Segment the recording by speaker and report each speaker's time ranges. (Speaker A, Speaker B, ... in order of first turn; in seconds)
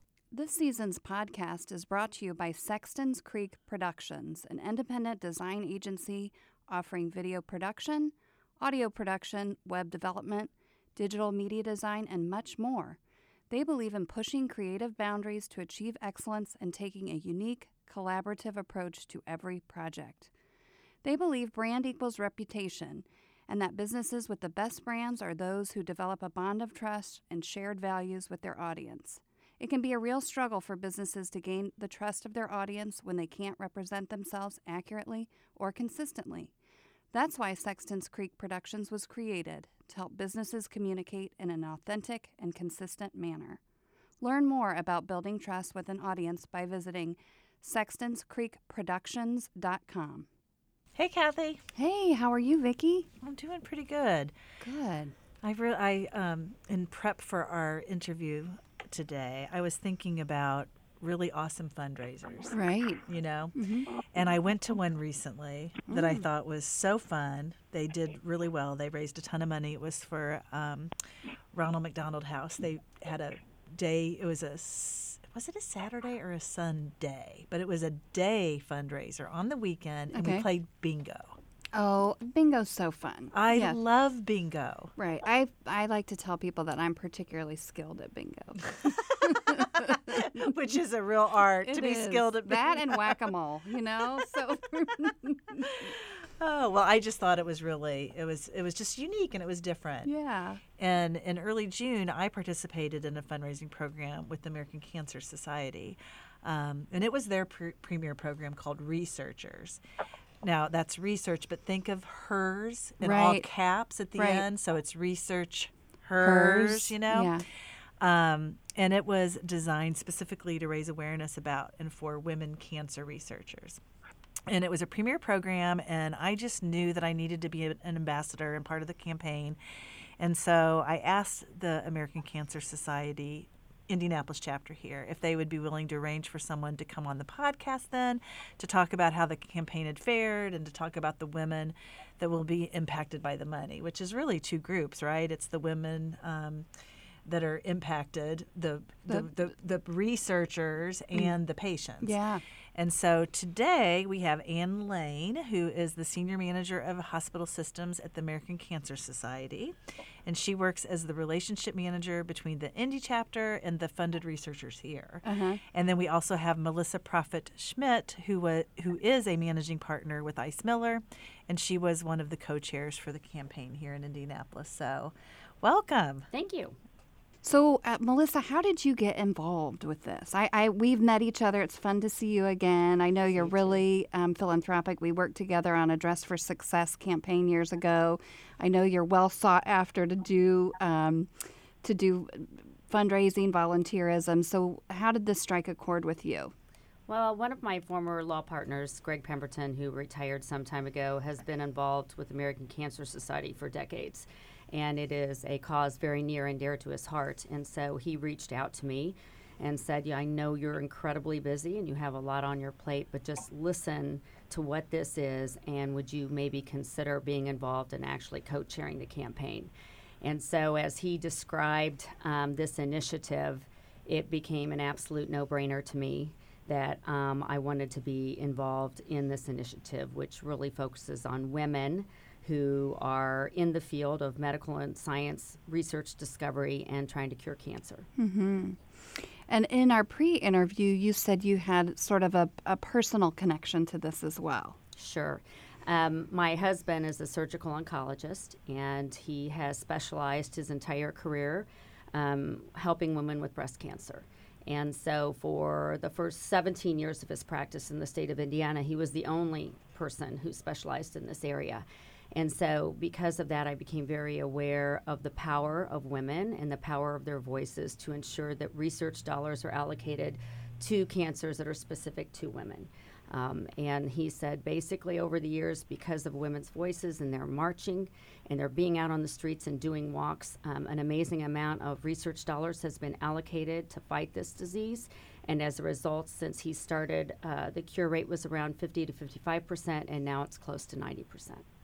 Speaker A: 0.3-13.0, 13.5-20.3, 21.0-36.5, 37.1-43.6, 44.2-50.3, 51.8-53.1, 54.6-55.1, 62.5-63.9, 65.9-66.2, 80.1-80.5, 81.8-83.8, 85.0-90.5, 91.6-95.9, 100.0-100.6, 113.0-113.5, 114.2-114.5, 116.2-117.5, 149.1-149.4, 152.0-152.4, 165.2-165.6, 177.4-196.5, 238.2-244.8
Speaker B: 50.9-51.6, 53.2-54.3, 55.4-62.5, 63.1-70.9, 71.5-81.4, 83.3-84.9, 89.2-93.3, 95.6-100.1, 100.8-109.8, 110.4-117.4, 118.0-123.8, 124.5-129.6, 130.2-146.7, 147.2-152.2, 152.8-159.7, 160.2-176.3
Speaker C: 176.3-176.8, 183.2-183.8, 197.1-238.1, 244.9-291.6